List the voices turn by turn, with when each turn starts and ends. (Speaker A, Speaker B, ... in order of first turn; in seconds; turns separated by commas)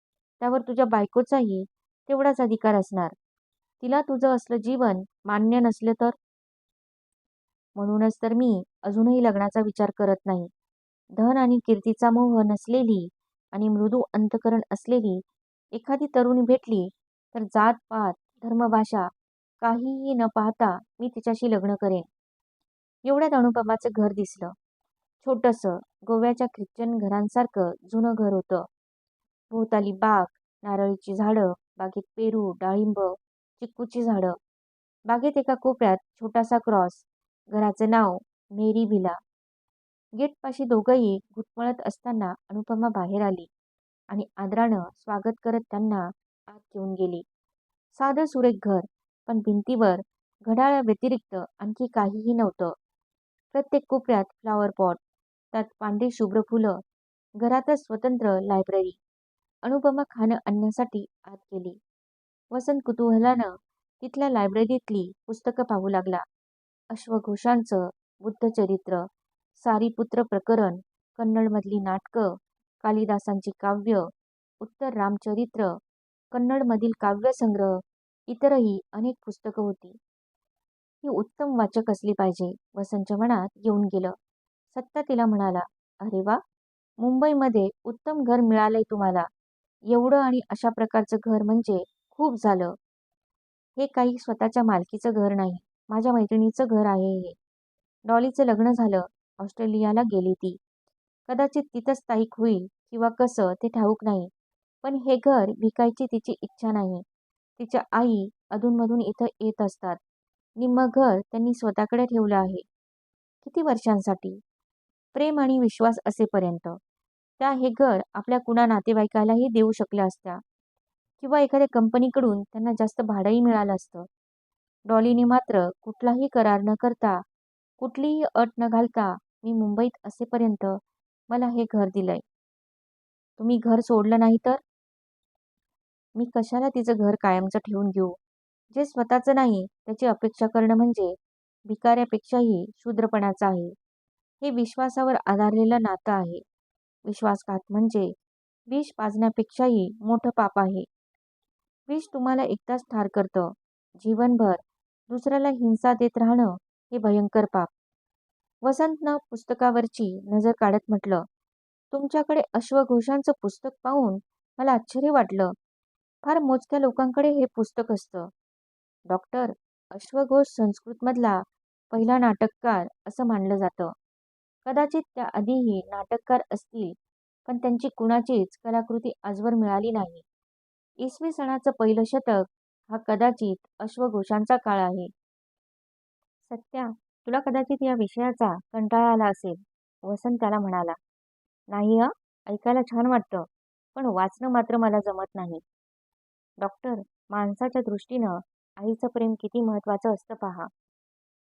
Speaker A: 0.4-3.1, Speaker A: 3.8-6.2, Speaker A: 7.8-10.5, Speaker A: 11.2-15.2, Speaker A: 15.7-22.1, Speaker A: 23.1-24.6, Speaker A: 25.2-28.7, Speaker A: 29.5-34.4, Speaker A: 35.1-39.2, Speaker A: 40.2-43.5, Speaker A: 44.1-47.2, Speaker A: 47.9-52.8, Speaker A: 53.5-55.0, Speaker A: 55.5-56.8, Speaker A: 57.4-59.0, Speaker A: 59.6-61.8, Speaker A: 62.5-66.2, Speaker A: 66.9-69.1, Speaker A: 69.6-75.8, Speaker A: 76.3-80.0, Speaker A: 81.0-84.2, Speaker A: 84.7-86.4, Speaker A: 87.0-89.3, Speaker A: 89.9-92.8, Speaker A: 93.8-97.4, Speaker A: 98.1-100.6, Speaker A: 101.3-104.3, Speaker A: 104.8-107.0, Speaker A: 107.6-110.0, Speaker A: 110.6-112.6, Speaker A: 113.4-114.4, Speaker A: 115.1-116.8, Speaker A: 117.4-120.4, Speaker A: 121.2-124.1, Speaker A: 124.9-127.2, Speaker A: 127.8-132.2, Speaker A: 133.4-134.6, Speaker A: 136.2-138.2, Speaker A: 138.7-143.8, Speaker A: 144.4-146.4, Speaker A: 147.1-148.1, Speaker A: 148.7-150.9, Speaker A: 151.9-157.7, Speaker A: 158.6-161.3, Speaker A: 161.9-165.6, Speaker A: 166.2-168.3, Speaker A: 169.1-173.9, Speaker A: 174.7-177.0, Speaker A: 177.5-180.2, Speaker A: 181.0-185.1, Speaker A: 186.5-191.0, Speaker A: 191.7-195.6, Speaker A: 196.6-200.7